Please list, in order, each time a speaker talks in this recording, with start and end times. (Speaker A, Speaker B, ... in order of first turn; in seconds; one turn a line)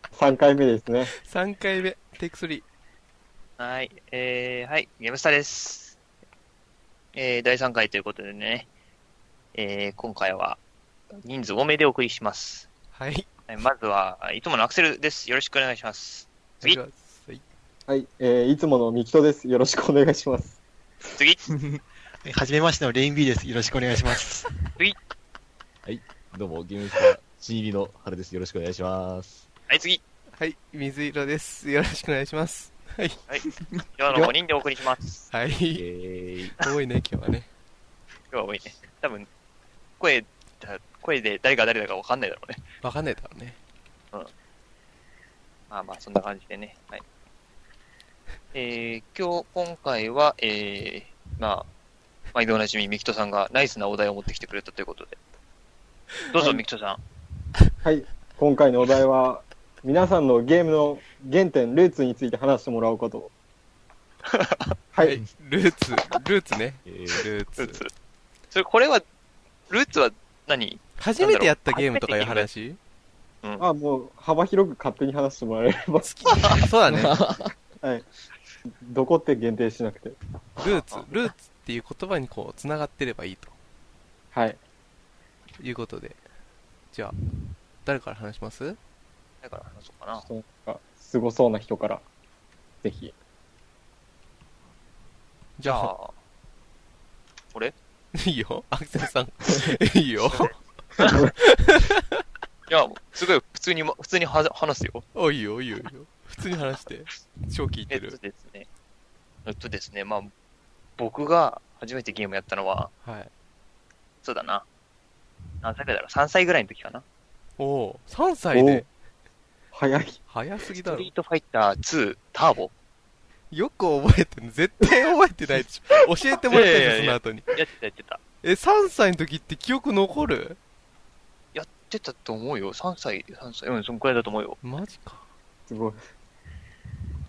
Speaker A: 0.1-1.1
Speaker B: 1.2-2.7
Speaker C: 3.6-6.0
Speaker C: 7.2-8.7
Speaker C: 9.6-10.6
Speaker C: 11.2-12.7
Speaker B: 12.9-13.3
Speaker C: 13.5-16.8
Speaker B: 16.6-17.4
Speaker A: 17.9-20.6
Speaker C: 21.1-21.4
Speaker D: 22.2-24.6
Speaker E: 25.9-29.5
Speaker C: 29.7-30.0
Speaker B: 30.4-33.2
Speaker C: 34.0-35.0
Speaker E: 34.1-34.3
Speaker B: 35.3-35.9
Speaker E: 35.8-36.6
Speaker B: 36.6-37.5
Speaker C: 38.3-39.3
Speaker C: 40.0-42.6
Speaker B: 42.8-43.6
Speaker C: 45.7-47.0
Speaker C: 48.5-51.7
Speaker C: 52.3-55.2
Speaker C: 56.3-57.0
Speaker A: 57.8-63.3
Speaker C: 64.3-64.6
Speaker A: 64.9-65.2
Speaker B: 65.0-67.8
Speaker E: 66.9-67.2
Speaker C: 67.6-67.9
Speaker C: 68.5-69.0
Speaker C: 69.7-72.5
Speaker B: 71.0-72.8
Speaker A: 73.6-76.1
Speaker B: 76.0-77.2
Speaker E: 76.9-77.5
Speaker A: 78.7-80.2
Speaker B: 80.6-83.5
Speaker A: 84.3-84.6
Speaker B: 85.6-86.2
Speaker B: 87.8-88.8
Speaker C: 89.4-90.3
Speaker A: 90.2-92.0
Speaker A: 92.8-93.1
Speaker B: 95.6-95.9
Speaker C: 95.6-96.1
Speaker B: 98.1-100.5
Speaker C: 100.4-101.2
Speaker A: 101.0-101.3
Speaker B: 101.1-102.2
Speaker C: 102.7-105.0
Speaker B: 105.2-108.2
Speaker C: 107.9-108.7
Speaker C: 109.5-110.3
Speaker C: 111.0-112.9
Speaker B: 113.0-113.3
Speaker C: 114.2-114.7
Speaker C: 115.6-117.0
Speaker B: 117.6-118.9
Speaker A: 118.5-118.9
Speaker A: 119.7-120.2
Speaker B: 120.3-121.1
Speaker C: 120.8-122.7
Speaker B: 123.5-127.5
Speaker C: 126.5-128.2
Speaker B: 128.4-130.6
Speaker C: 131.5-134.6
Speaker B: 134.6-135.3
Speaker A: 135.7-136.0